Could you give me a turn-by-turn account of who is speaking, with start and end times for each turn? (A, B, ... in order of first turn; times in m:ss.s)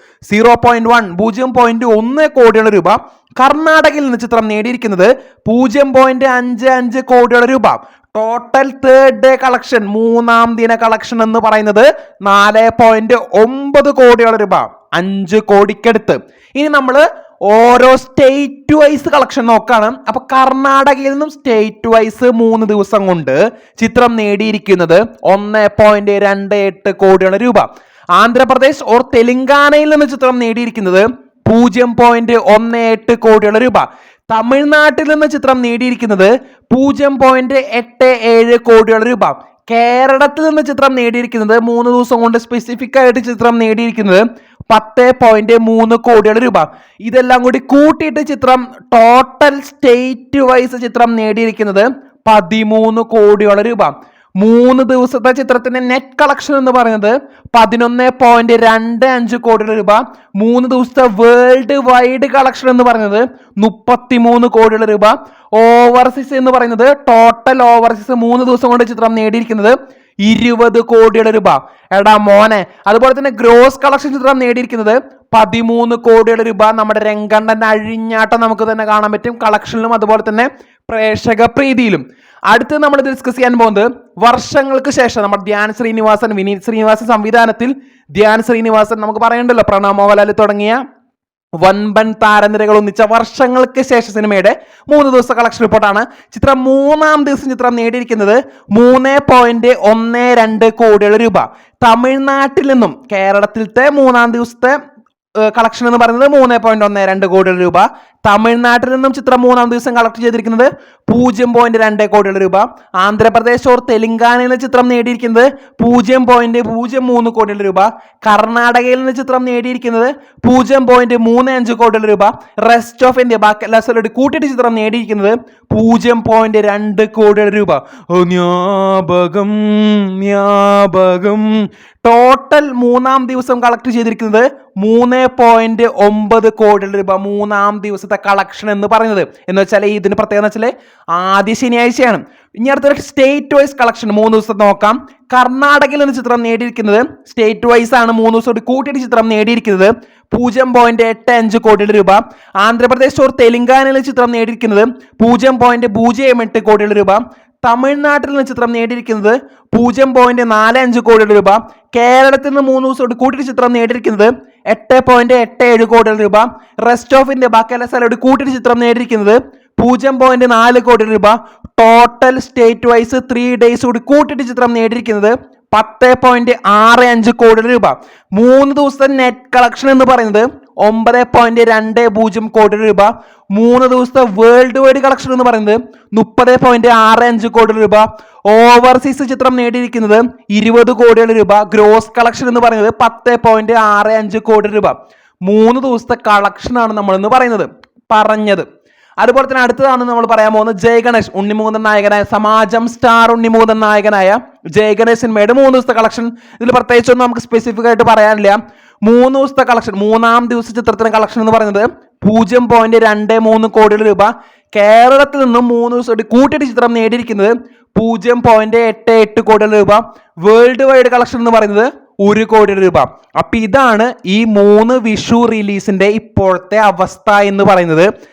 0:00.3-1:30.8 A
1:31.6-1:44.8 A
1:45.4-3:18.7 A
3:19.2-3:48.1 A